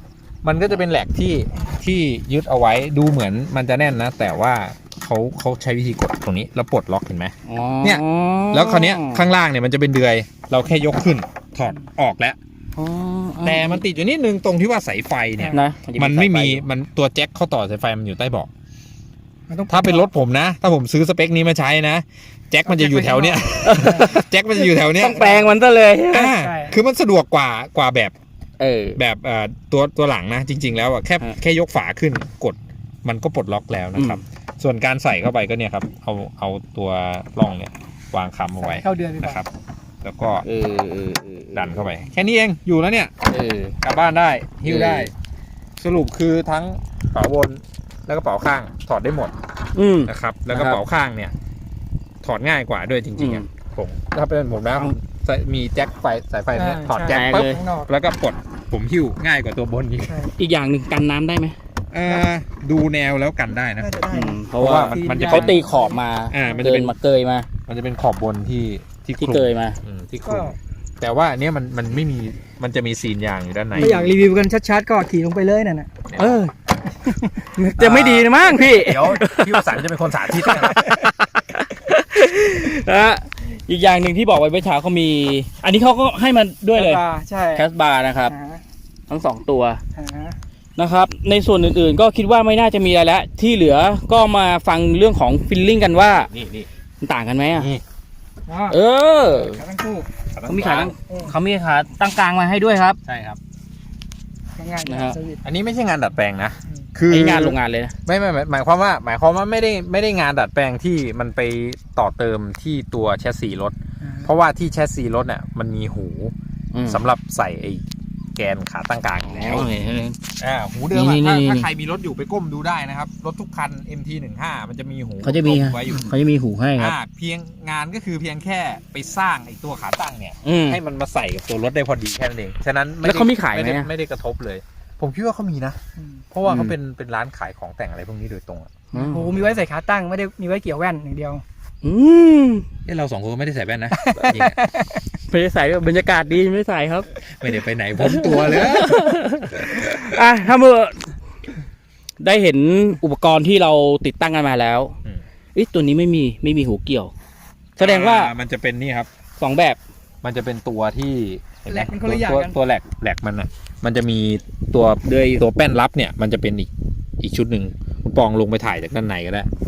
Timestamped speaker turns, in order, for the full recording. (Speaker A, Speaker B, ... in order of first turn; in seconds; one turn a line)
Speaker A: 0.4-12.4
Speaker B: 7.5-9.2
Speaker B: 12.8-13.8
Speaker A: 13.4-18.5
Speaker C: 15.4-15.7
Speaker B: 15.5-16.6
Speaker C: 19.5-20.1
Speaker A: 19.7-25.4
Speaker C: 22.7-24.2
Speaker B: 23.6-24.2
Speaker B: 25.0-26.3
Speaker C: 25.1-25.5
Speaker A: 26.1-28.1
Speaker C: 26.1-26.8
Speaker B: 28.6-29.0
Speaker A: 29.0-39.5
Speaker C: 38.6-39.4
Speaker A: 40.0-40.5
Speaker B: 40.5-42.0
Speaker A: 41.5-43.1
Speaker B: 43.3-43.8
Speaker A: 43.8-45.1
Speaker B: 44.6-45.1
Speaker A: 45.8-49.4
Speaker B: 49.8-50.8
Speaker A: 50.1-51.3
Speaker A: 52.2-60.2
Speaker B: 53.2-53.5
Speaker C: 56.5-57.9
Speaker B: 57.1-57.6
Speaker C: 60.1-60.3
Speaker B: 60.4-61.6
Speaker A: 61.9-65.6
Speaker C: 63.8-66.6
Speaker B: 64.1-67.5
Speaker A: 66.3-66.9
Speaker A: 67.7-74.1
Speaker B: 69.2-69.8
Speaker C: 70.2-70.5
Speaker C: 73.7-75.9
Speaker A: 76.1-76.4
Speaker B: 76.2-76.5
Speaker C: 77.0-77.5
Speaker B: 77.6-79.8
Speaker A: 77.8-80.9
Speaker C: 78.5-78.8
Speaker B: 80.4-87.0
Speaker C: 80.5-81.0
Speaker C: 86.8-87.7
Speaker B: 87.5-88.3
Speaker C: 88.3-88.6
Speaker B: 89.1-89.8
Speaker C: 90.0-90.4
Speaker B: 90.8-96.3
Speaker A: 96.1-96.7
Speaker B: 97.0-97.7
Speaker A: 97.5-97.8
Speaker C: 98.5-98.8
Speaker B: 98.7-99.6
Speaker C: 99.3-100.1
Speaker A: 100.3-100.9
Speaker B: 100.5-103.0
Speaker C: 101.1-101.3
Speaker A: 103.0-103.4
Speaker C: 104.6-105.4
Speaker B: 104.9-105.2
Speaker A: 105.5-116.3
Speaker B: 107.1-107.9
Speaker C: 114.0-114.3
Speaker B: 116.7-117.0
Speaker A: 116.9-117.8
Speaker A: 118.4-119.7
Speaker B: 119.2-120.2
Speaker A: 120.4-126.2
Speaker B: 120.9-121.7
Speaker B: 125.2-127.0
Speaker A: 126.8-135.8
Speaker B: 130.4-130.8
Speaker B: 133.0-133.9
Speaker C: 136.0-136.2
Speaker A: 136.3-139.6
Speaker B: 136.5-136.7
Speaker B: 138.9-139.3
Speaker C: 138.9-141.4
Speaker B: 141.8-142.7
Speaker A: 142.9-144.6
Speaker C: 144.0-145.0
Speaker B: 145.3-147.1
Speaker A: 147.3-150.2
Speaker B: 148.0-151.1
Speaker B: 152.2-154.9
Speaker B: 155.6-157.1
Speaker B: 157.8-158.3
Speaker A: 157.8-159.1
Speaker B: 159.4-159.8
Speaker A: 160.2-169.5
Speaker C: 161.7-162.6
Speaker B: 165.1-165.4